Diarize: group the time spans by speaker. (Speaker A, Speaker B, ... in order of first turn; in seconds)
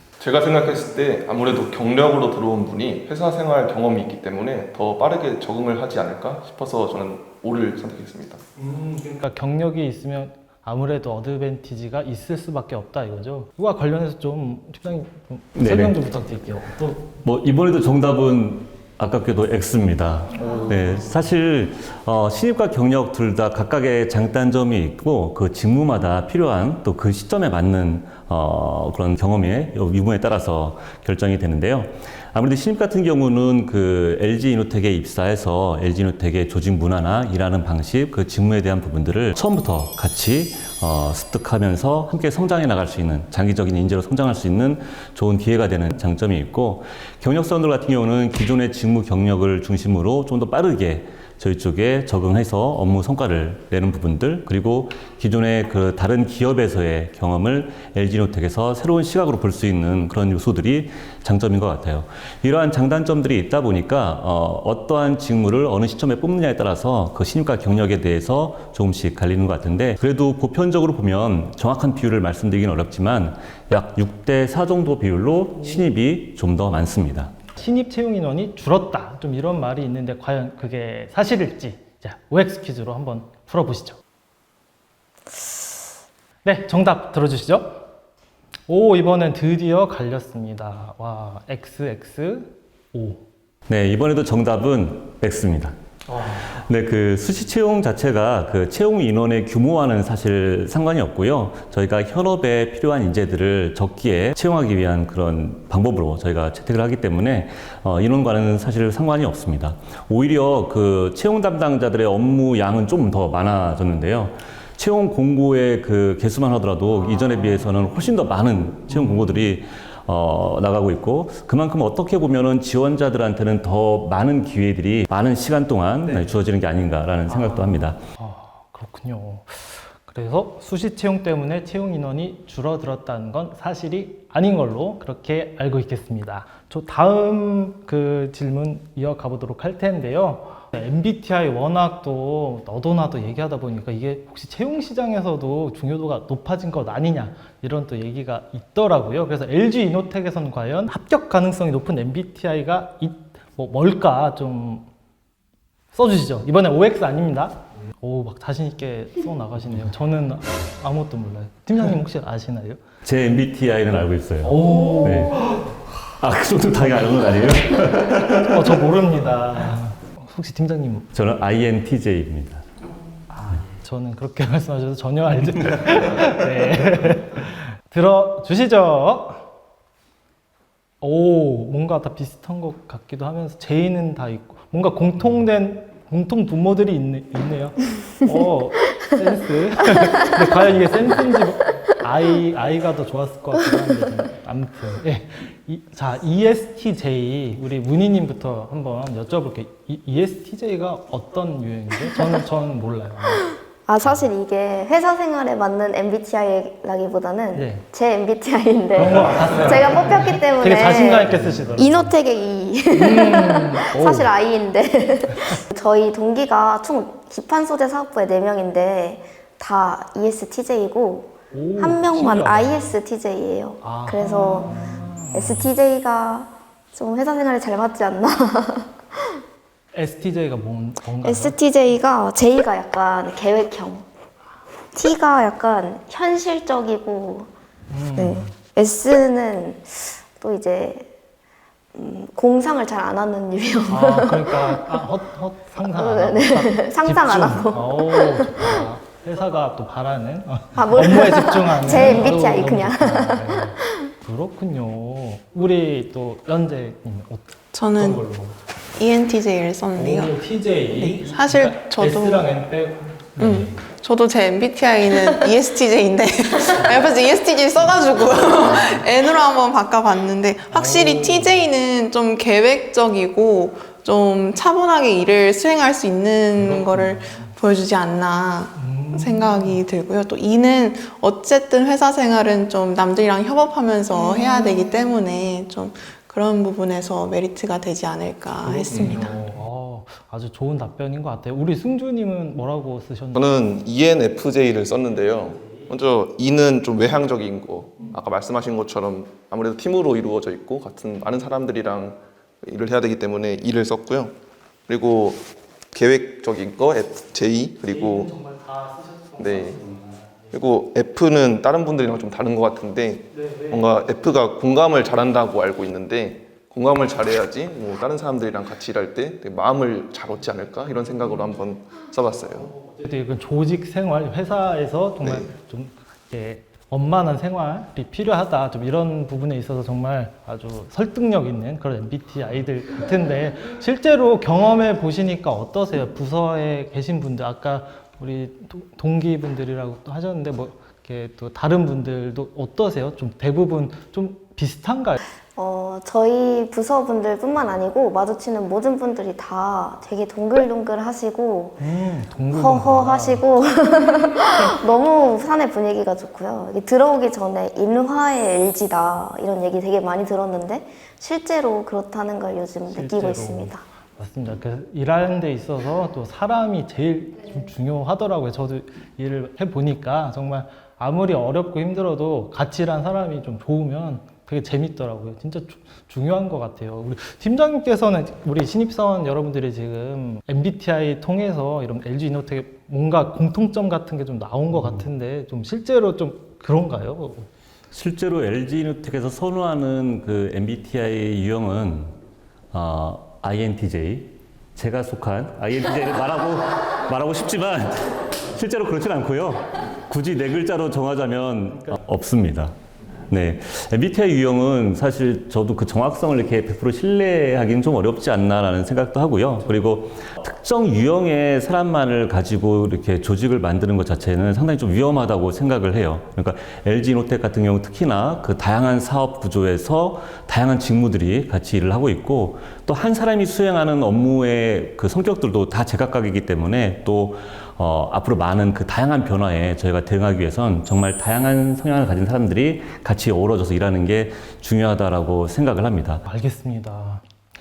Speaker A: 0.2-8.4, 293.4-304.3, 304.9-308.3, 309.4-309.8, 310.5-322.7, 325.2-325.5
Speaker B: 8.6-17.0, 77.5-84.0, 86.4-87.9, 88.7-93.2, 127.3-154.9, 155.9-162.8, 164.4-165.6, 168.3-171.1, 173.3-179.4, 181.0-203.6, 207.5-207.8, 208.9-212.1, 212.9-214.3, 221.5-222.9, 223.8-225.7, 229.9-231.6, 237.9-238.5, 243.9-258.6, 259.9-263.8, 270.7-271.6, 276.6-277.5, 278.8-279.8, 284.1-284.9, 288.6-293.4, 307.8-310.5, 313.3-313.9, 322.8-345.2, 351.8-353.4, 354.4-354.8, 362.9-387.5, 401.7-402.0, 436.2-437.2
Speaker C: 15.5-16.0, 16.9-77.3, 93.7-128.0, 163.0-165.4, 165.9-168.7, 171.1-172.6, 387.9-392.2, 392.7-402.7, 403.3-436.2
Speaker D: 203.9-224.7, 225.3-229.4, 231.2-234.0, 234.9-237.5, 238.2-241.1, 241.9-245.0, 245.8-248.7, 250.8-253.9, 345.5-351.8, 352.5-363.8
Speaker E: 257.7-258.2, 259.0-260.3, 260.9-262.5, 263.4-289.3